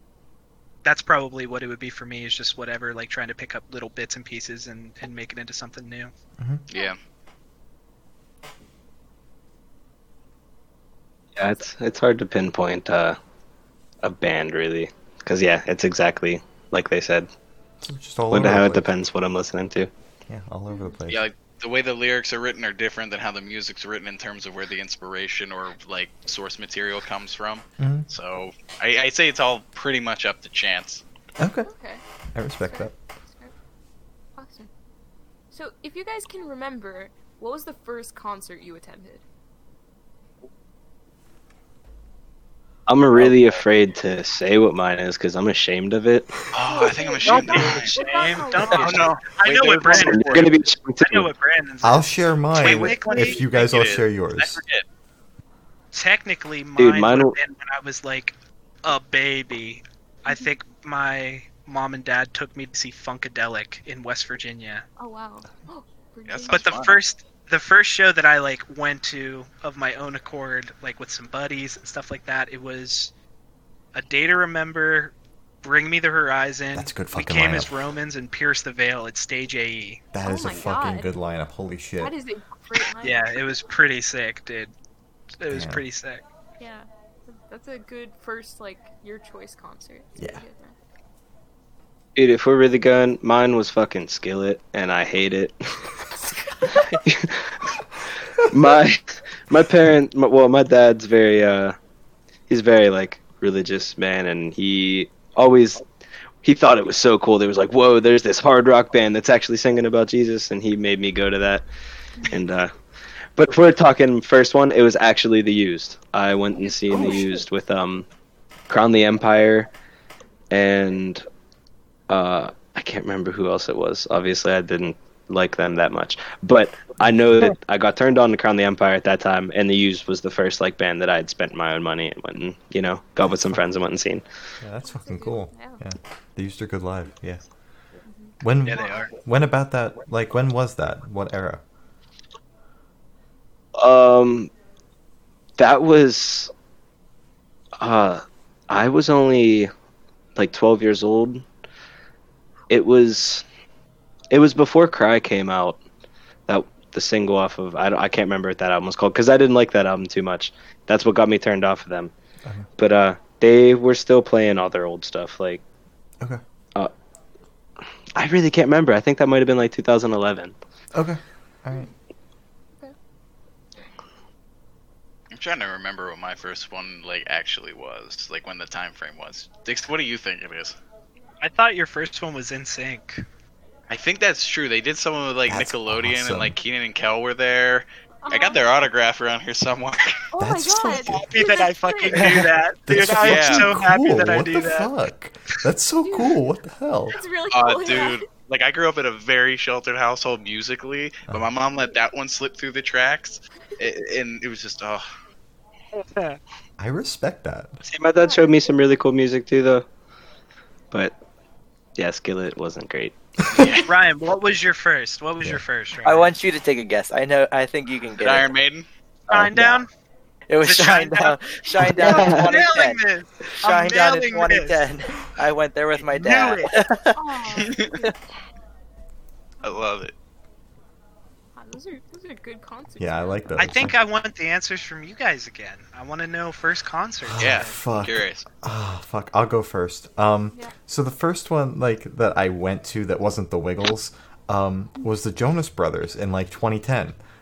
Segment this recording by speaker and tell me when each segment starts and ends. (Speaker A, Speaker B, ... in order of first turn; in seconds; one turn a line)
Speaker A: 0.8-6.1
Speaker B: 6.7-7.0
Speaker C: 6.7-7.0
Speaker D: 11.3-13.2
Speaker D: 14.0-17.3
Speaker E: 17.8-18.9
Speaker D: 18.3-19.9
Speaker E: 20.3-21.2
Speaker C: 20.7-20.9
Speaker B: 21.1-31.0
Speaker E: 27.8-28.1
Speaker E: 31.4-31.7
Speaker C: 31.7-32.0
Speaker E: 32.3-32.9
Speaker C: 32.6-33.5
Speaker C: 34.4-34.7
Speaker C: 35.5-39.2
Speaker D: 42.9-46.5
Speaker B: 46.5-48.0
Speaker C: 46.7-49.0
Speaker A: 47.2-50.5
Speaker B: 48.6-50.5
Speaker D: 49.9-51.3
Speaker A: 51.0-53.4
Speaker E: 51.8-54.6
Speaker B: 52.6-54.8
Speaker A: 55.9-64.8
Speaker D: 56.8-57.4
Speaker C: 65.0-66.8
Speaker B: 66.3-67.0
Speaker A: 66.5-73.1
Speaker A: 73.9-80.0
Speaker E: 76.7-77.7
Speaker E: 80.1-82.1
Speaker C: 80.2-81.1
Speaker C: 82.0-83.5
Speaker A: 83.0-84.7
Speaker A: 85.4-86.2
Speaker E: 85.5-85.8
Speaker C: 86.6-90.8
Speaker D: 92.2-95.9
Speaker C: 96.1-97.1
Speaker D: 96.9-97.5
Speaker D: 98.4-101.8
Speaker D: 102.5-105.8
Speaker D: 106.4-111.7
Speaker D: 112.3-112.7
Speaker D: 113.3-118.1
Speaker D: 118.7-119.7
Speaker D: 120.5-121.2
Speaker D: 122.1-134.2
Speaker E: 127.0-127.5
Speaker E: 133.2-133.6
Speaker E: 134.6-137.4
Speaker C: 134.8-135.8
Speaker C: 138.1-139.1
Speaker E: 138.4-141.6
Speaker A: 138.6-139.1
Speaker D: 143.8-144.5
Speaker D: 145.6-146.5
Speaker D: 147.8-149.7
Speaker D: 150.3-151.4
Speaker D: 152.7-153.4
Speaker D: 154.3-155.8
Speaker D: 156.5-162.1
Speaker D: 162.8-165.6
Speaker D: 168.1-170.5
Speaker E: 170.9-171.9
Speaker B: 175.3-180.8
Speaker A: 181.4-183.2
Speaker B: 183.9-190.2
Speaker E: 185.5-186.5
Speaker C: 188.2-188.6
Speaker C: 190.3-192.4
Speaker E: 190.4-191.2
Speaker A: 191.1-194.9
Speaker E: 192.9-197.2
Speaker B: 192.9-193.7
Speaker C: 196.0-196.4
Speaker C: 197.1-198.3
Speaker B: 197.5-205.0
Speaker A: 205.9-206.4
Speaker E: 206.8-207.8
Speaker D: 207.8-209.8
Speaker C: 208.2-208.6
Speaker D: 212.0-213.1
Speaker B: 213.5-213.9
Speaker A: 213.7-216.3
Speaker F: 216.0-218.5
Speaker B: 218.2-218.8
Speaker A: 219.3-219.9
Speaker F: 219.3-219.8
Speaker F: 220.5-223.0
Speaker A: 220.6-224.8
Speaker D: 222.1-222.5
Speaker F: 223.6-227.2
Speaker A: 226.0-226.7
Speaker C: 227.1-228.5
Speaker B: 227.6-227.9
Speaker B: 229.6-230.1
Speaker C: 231.5-233.6
Speaker E: 233.0-233.9
Speaker A: 233.6-237.8
Speaker E: 237.3-247.2
Speaker B: 237.4-238.4